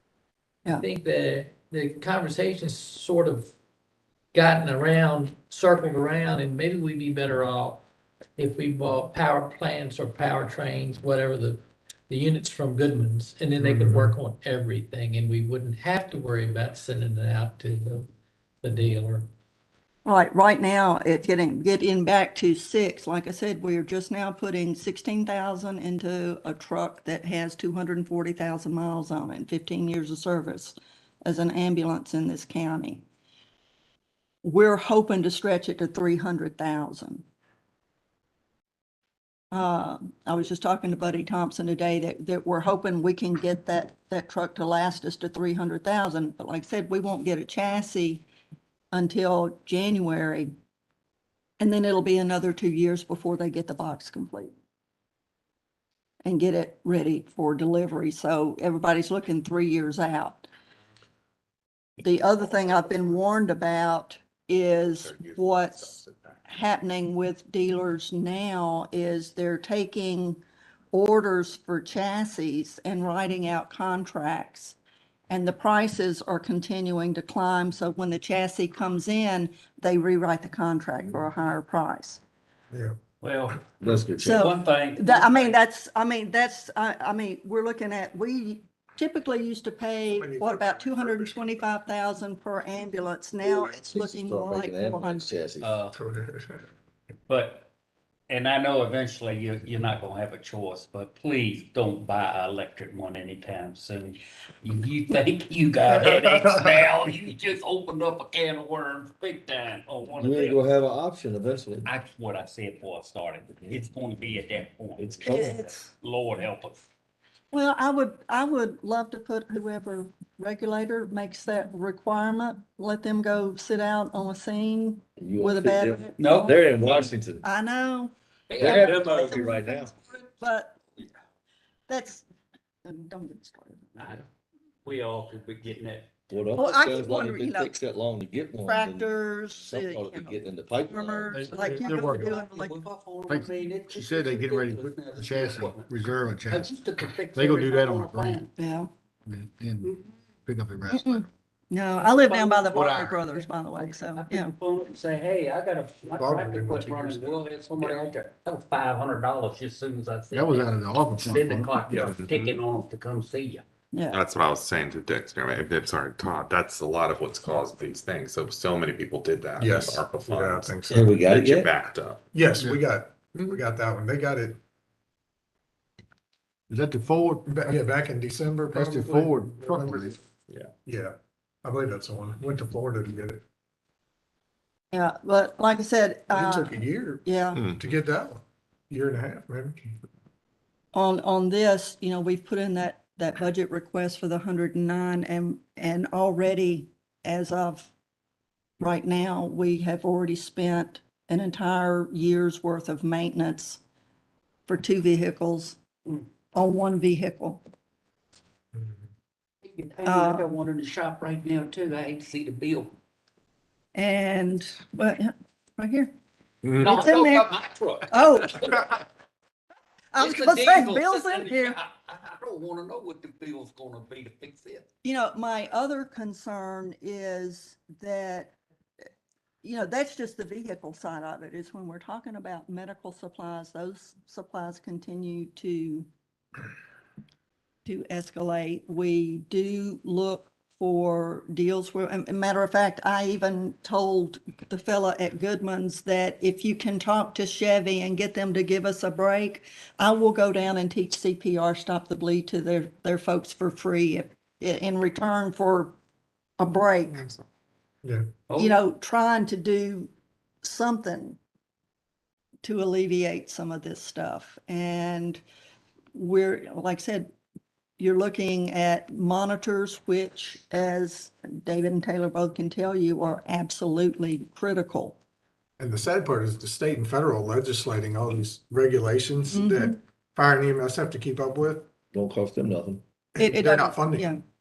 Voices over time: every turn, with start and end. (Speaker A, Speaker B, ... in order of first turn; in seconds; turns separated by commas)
Speaker A: 0.8-3.5, Speaker A: 4.3-7.8, Speaker A: 8.4-18.1, Speaker B: 13.6-14.1, Speaker A: 18.6-19.3, Speaker C: 20.1-33.0, Speaker C: 34.4-37.2, Speaker C: 39.5-48.2, Speaker C: 48.9-50.5, Speaker C: 51.6-54.5, Speaker C: 56.2-60.5, Speaker C: 62.0-66.0, Speaker D: 65.0-66.2, Speaker C: 66.5-70.4, Speaker C: 70.9-74.8, Speaker C: 75.3-82.2, Speaker B: 82.7-83.0, Speaker E: 83.2-85.6, Speaker F: 83.8-84.5, Speaker C: 84.2-95.3, Speaker B: 90.1-91.5, Speaker F: 93.5-95.7, Speaker E: 95.6-96.0, Speaker B: 95.9-96.7, Speaker E: 97.3-97.7, Speaker E: 98.3-110.7, Speaker F: 110.2-111.9, Speaker E: 111.8-116.9, Speaker F: 115.0-115.6, Speaker C: 115.3-115.9, Speaker C: 117.5-126.5, Speaker F: 125.2-127.5, Speaker E: 126.2-127.1, Speaker C: 127.4-130.8, Speaker E: 128.5-129.6, Speaker F: 128.6-129.9, Speaker C: 131.9-132.2, Speaker C: 132.8-134.2, Speaker E: 134.0-134.2, Speaker E: 134.8-136.1, Speaker F: 136.3-141.4, Speaker C: 136.5-137.8, Speaker C: 138.7-140.4, Speaker C: 140.9-142.8, Speaker G: 141.3-142.4, Speaker E: 141.7-145.9, Speaker G: 143.3-146.8, Speaker E: 146.5-148.5, Speaker G: 147.3-148.4, Speaker C: 148.6-148.9, Speaker G: 149.3-149.9, Speaker G: 150.5-151.2, Speaker C: 150.9-154.5, Speaker E: 151.9-163.6, Speaker G: 152.8-153.2, Speaker B: 156.2-157.3, Speaker G: 160.3-162.1, Speaker D: 162.0-162.6, Speaker C: 163.9-164.2, Speaker D: 164.1-172.2, Speaker B: 169.6-171.1, Speaker F: 170.9-171.7, Speaker B: 172.3-174.6, Speaker G: 176.7-177.8, Speaker B: 177.5-180.2, Speaker G: 178.7-180.2, Speaker B: 180.8-183.4, Speaker C: 184.9-187.7, Speaker B: 186.3-189.9, Speaker D: 187.5-187.9, Speaker C: 190.9-197.9, Speaker C: 198.8-203.8, Speaker C: 204.7-205.8, Speaker C: 206.5-207.6, Speaker E: 209.6-212.9, Speaker C: 210.1-210.5, Speaker C: 213.9-216.1, Speaker D: 216.6-217.0, Speaker E: 216.8-219.0, Speaker C: 216.8-217.5, Speaker C: 218.1-218.8, Speaker C: 220.1-221.8, Speaker E: 220.2-224.8, Speaker C: 225.0-228.6, Speaker C: 229.6-236.1, Speaker C: 237.8-255.9, Speaker C: 256.6-257.3, Speaker E: 258.5-258.8, Speaker C: 258.6-260.1, Speaker C: 260.6-261.4, Speaker C: 262.6-265.4, Speaker C: 266.1-267.3, Speaker C: 268.0-275.2, Speaker B: 275.8-281.9, Speaker C: 279.5-280.0, Speaker F: 282.1-283.0, Speaker B: 283.4-284.3, Speaker C: 283.4-284.4